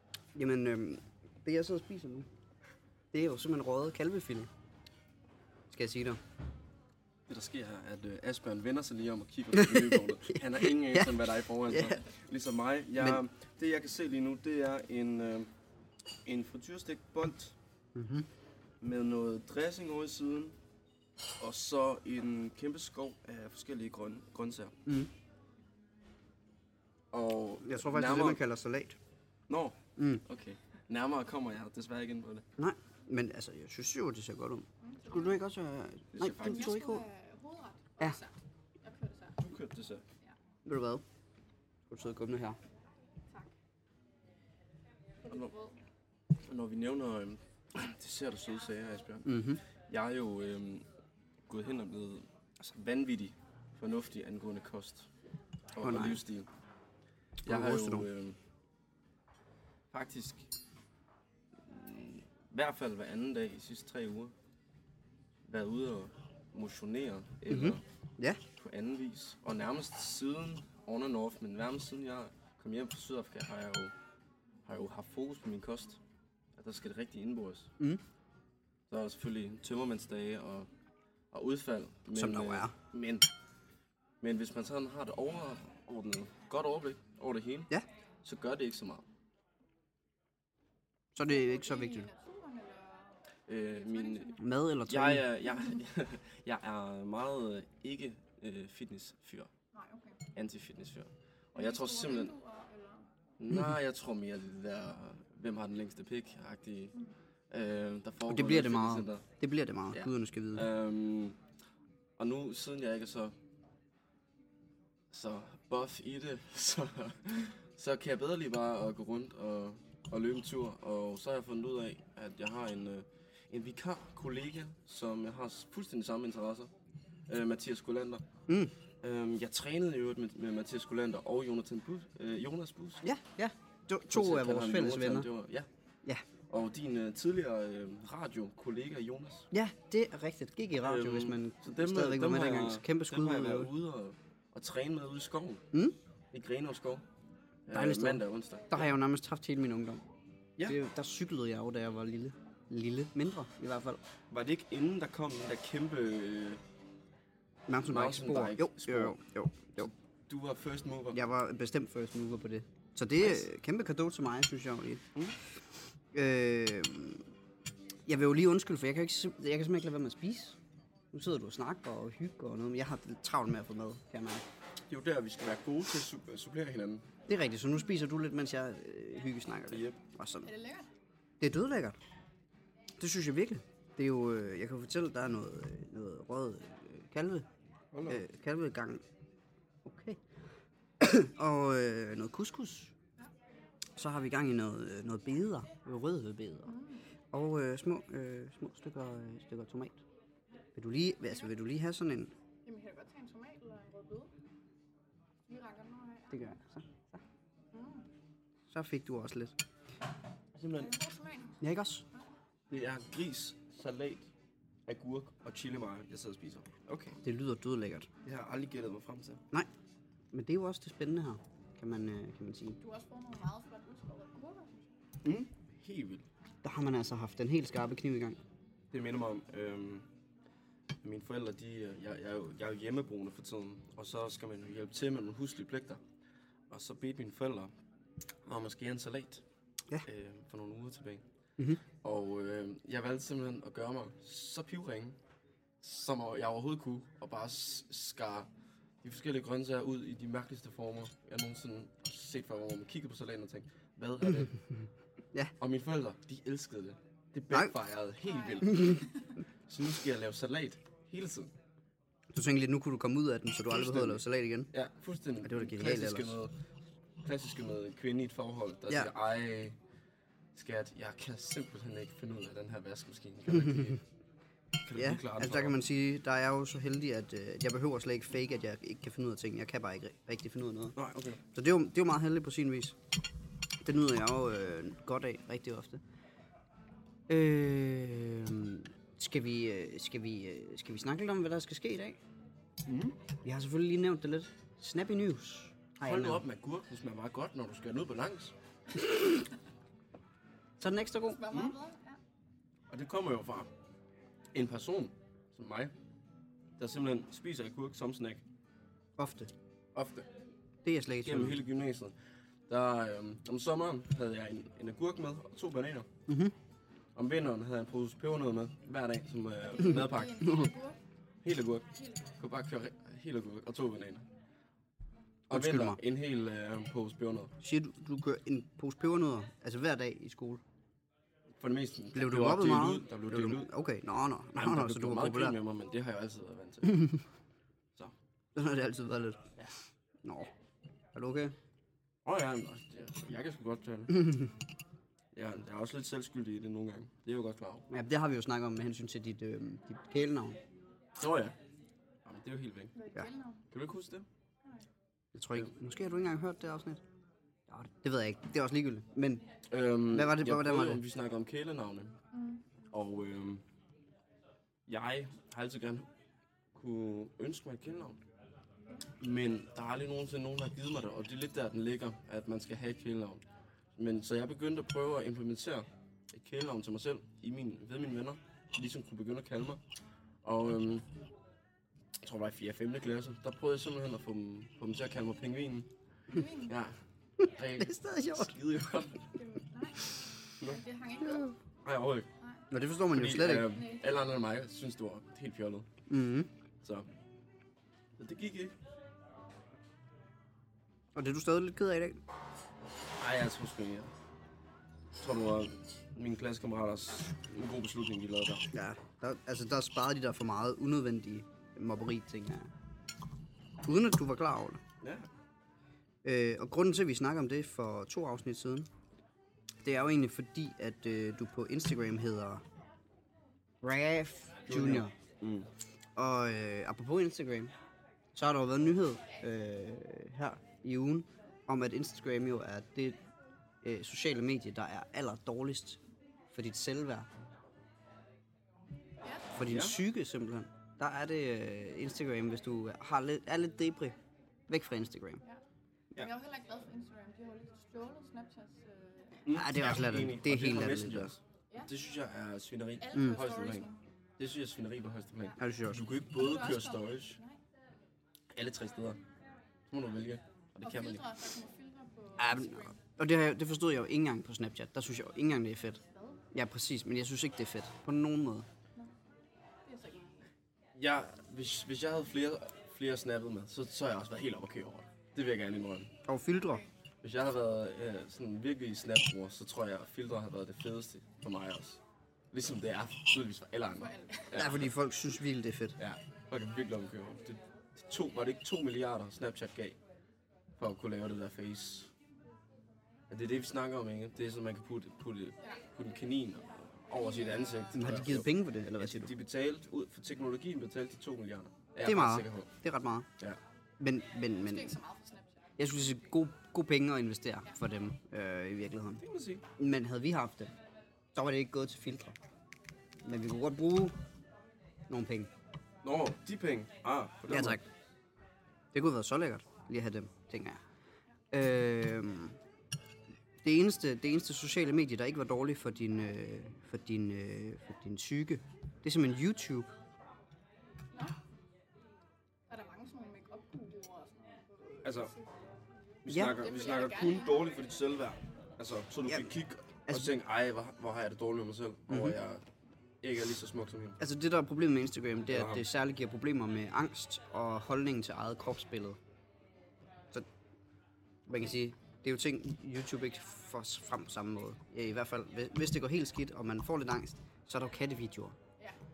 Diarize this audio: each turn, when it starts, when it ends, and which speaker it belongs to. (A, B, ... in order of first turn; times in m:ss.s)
0:00.3-0:02.3 A
0:03.1-0:04.5 A
0:05.7-0:06.2 A
0:07.3-0:15.5 B
0:09.5-0:11.1 A
0:11.7-0:12.0 A
0:16.2-0:17.6 B
0:17.9-0:18.3 A
0:18.8-0:20.6 B
0:21.4-0:24.8 B
0:27.1-0:28.4 B
0:27.6-0:29.0 A
0:29.5-0:32.4 B
0:30.0-0:30.2 A
0:32.6-0:37.0 A
0:34.8-0:35.4 C
0:36.1-0:36.8 B
0:36.4-0:39.4 C
0:39.4-0:40.0 B
0:40.6-0:41.0 A
0:41.9-0:42.6 A
0:45.2-0:45.8 C
0:46.4-0:50.8 B
0:49.2-0:49.6 A
0:51.5-0:55.1 B
0:55.7-0:56.5 B
0:55.8-0:56.2 A
0:57.4-0:58.1 A
0:57.4-0:58.4 B
0:59.9-1:00.5 B
1:01.6-1:04.3 B
1:05.4-1:07.8 B
1:07.5-1:08.4 A
1:08.6-1:13.9 B
1:14.6-1:16.0 B
1:16.6-1:17.7 B
1:18.9-1:20.7 B
1:21.3-1:23.2 B
1:22.1-1:22.7 A
1:24.2-1:27.7 B
1:28.2-1:29.0 B
1:31.1-1:32.1 A
1:31.2-1:33.2 C
1:33.5-1:34.3 B
1:33.7-1:34.6 C
1:34.4-1:35.3 A
1:34.9-1:39.5 B
1:39.7-1:40.2 C
1:40.3-1:42.4 B
1:41.5-1:43.1 C
1:43.4-1:46.9 B
1:47.5-1:49.2 B
1:48.3-1:50.7 A
1:49.9-1:51.4 B
1:52.2-1:53.3 B
1:55.1-2:06.7 B
2:07.3-2:08.2 B
2:08.5-2:08.7 A
2:09.0-2:13.0 B
2:13.0-2:15.3 A
2:14.1-2:15.7 B
2:16.5-2:19.5 B
2:19.5-2:23.7 A
2:20.8-2:25.6 B
2:26.3-2:27.0 B
2:27.6-2:28.9 B
2:27.7-2:30.0 A
2:30.6-2:34.0 A
2:34.3-2:36.6 B
2:37.7-2:39.9 A
2:37.9-2:39.2 B
2:39.8-2:41.2 B
2:41.1-2:45.0 A
2:46.1-2:47.2 A
2:48.0-2:50.6 A
2:51.1-2:54.4 A
2:54.9-2:57.0 B
2:57.3-3:00.5 A
2:59.7-3:00.0 B
3:00.4-3:00.9 C
3:01.4-3:02.0 A
3:03.0-3:07.5 A
3:07.9-3:08.2 B
3:08.1-3:09.0 A
3:09.8-3:10.2 A
3:11.0-3:12.9 A
3:14.0-3:16.7 A
3:16.7-3:17.0 C
3:17.3-3:20.0 A
3:20.7-3:22.3 A
3:22.6-3:24.3 C
3:25.5-3:26.5 C
3:26.3-3:27.2 A
3:27.7-3:28.1 C
3:28.7-3:29.5 A
3:30.5-3:31.0 B
3:30.8-3:31.6 C
3:31.6-3:32.0 A
3:32.7-3:34.3 B
3:34.8-3:37.2 B
3:37.2-3:38.1 A
3:38.2-3:39.4 B
3:40.3-3:42.8 A
3:42.8-3:44.9 C
3:45.2-3:46.2 B
3:46.6-3:48.4 A
3:48.9-3:50.0 B
3:51.0-3:56.0 B
3:56.7-3:57.7 B
3:58.4-3:59.4 B
4:00.0-4:01.2 B
4:02.0-4:05.2 B
4:05.8-4:08.5 B
4:09.0-4:14.5 B
4:15.6-4:19.1 B
4:18.3-4:19.2 C
4:19.7-4:21.5 B
4:22.3-4:24.7 A
4:23.7-4:26.5 B
4:25.4-4:26.3 A
4:27.2-4:29.8 B
4:30.5-4:34.0 B
4:34.8-4:35.8 B
4:35.0-4:40.9 A
4:40.9-4:41.4 B
4:41.5-4:43.0 A
4:43.8-4:46.0 A
4:47.3-4:52.2 A
4:52.8-4:53.2 B
4:53.4-4:56.4 A
4:56.0-4:58.5 B
4:59.0-4:59.4 A
5:00.8-5:01.4 A
5:01.3-5:02.2 C
5:02.9-5:03.7 B
5:04.5-5:05.9 B
5:06.8-5:08.4 B
5:09.2-5:09.5 A
5:09.9-5:10.3 B
5:10.8-5:11.6 A
5:11.2-5:12.2 B
5:12.7-5:16.1 B
5:16.3-5:16.5 A
5:17.1-5:20.5 B
5:19.7-5:21.0 C
5:20.4-5:20.7 A
5:21.4-5:21.9 B
5:22.0-5:22.3 C
5:22.4-5:24.3 B
5:25.5-5:26.0 A
5:25.5-5:27.5 B
5:27.6-5:30.6 A
5:31.6-5:33.7 B
5:32.1-5:35.6 A
5:34.6-5:37.2 B
5:38.5-5:39.5 A
5:40.2-5:40.5 A
5:41.1-5:41.6 A
5:42.2-5:44.4 B
5:45.3-5:47.9 B
5:47.9-5:50.6 A
5:51.2-5:51.6 B
5:52.2-5:52.9 B
5:52.9-5:53.6 C
5:53.7-5:54.3 B
5:55.3-5:57.0 A
5:57.7-5:59.4 A
5:59.7-6:02.2 B
6:00.1-6:01.0 A
6:02.3-6:02.7 C
6:02.9-6:03.6 B
6:04.9-6:06.0 B
6:06.7-6:08.2 B
6:09.2-6:13.4 B
6:13.9-6:19.8 B
6:20.4-6:21.1 B
6:22.2-6:25.9 B
6:26.3-6:26.8 C
6:26.6-6:27.0 B
6:27.4-6:28.5 A
6:27.5-6:29.3 B
6:29.3-6:31.5 C
6:31.2-6:31.5 A
6:31.8-6:32.3 B
6:32.7-6:33.7 A
6:33.1-6:35.9 B
6:33.7-6:34.1 C
6:36.1-6:36.5 A
6:36.8-6:37.1 B
6:38.2-6:38.8 B
6:41.1-6:42.2 A
6:43.1-6:44.1 B
6:45.2-6:48.7 B
6:48.7-6:52.7 A
6:53.8-6:54.8 A
6:55.0-6:55.3 B
6:56.2-6:58.9 A
6:59.8-7:02.6 A
7:03.8-7:05.1 A
7:04.7-7:05.7 B
7:06.2-7:07.7 A
7:08.3-7:13.2 A
7:13.8-7:16.0 A
7:16.5-7:17.3 A
7:19.2-7:19.5 C
7:19.5-7:24.2 A
7:19.6-7:20.0 B
7:24.7-7:25.4 A
7:26.1-7:29.4 C
7:29.4-7:37.4 B
7:29.5-7:31.3 A
7:33.0-7:34.0 C
7:35.6-7:36.0 A
7:36.3-7:37.6 C
7:38.5-7:39.2 B
7:39.9-7:41.2 B
7:40.8-7:43.0 C
7:42.4-7:46.0 A
7:46.1-7:46.4 C
7:46.5-7:48.7 A
7:49.8-7:50.4 C
7:50.9-7:56.1 B
7:56.2-7:56.8 A
7:57.2-8:02.0 B
8:02.5-8:04.9 B
8:04.0-8:04.6 C
8:04.5-8:06.0 A
8:06.0-8:10.0 B
8:10.8-8:12.1 B
8:13.3-8:22.7 B
8:17.2-8:17.9 C
8:17.9-8:19.3 A
8:22.0-8:23.3 A
8:24.0-8:25.0 A
8:24.6-8:25.7 C
8:25.8-8:29.2 A
8:29.2-8:29.6 B
8:29.8-8:30.7 A
8:31.3-8:32.4 A
8:33.2-8:34.1 A
8:35.1-8:35.5 A
8:36.0-8:37.8 B
8:37.5-8:37.8 A
8:38.9-8:40.8 A
8:41.5-8:42.6 A
8:43.6-8:49.9 A
8:52.7-8:55.5 C
8:55.0-8:55.3 B
8:56.2-9:02.6 B
8:56.3-8:56.6 A
8:56.4-8:57.7 C
9:02.1-9:02.3 A
9:03.2-9:04.2 B
9:04.2-9:09.2 A
9:05.5-9:05.8 B
9:11.5-9:18.6 A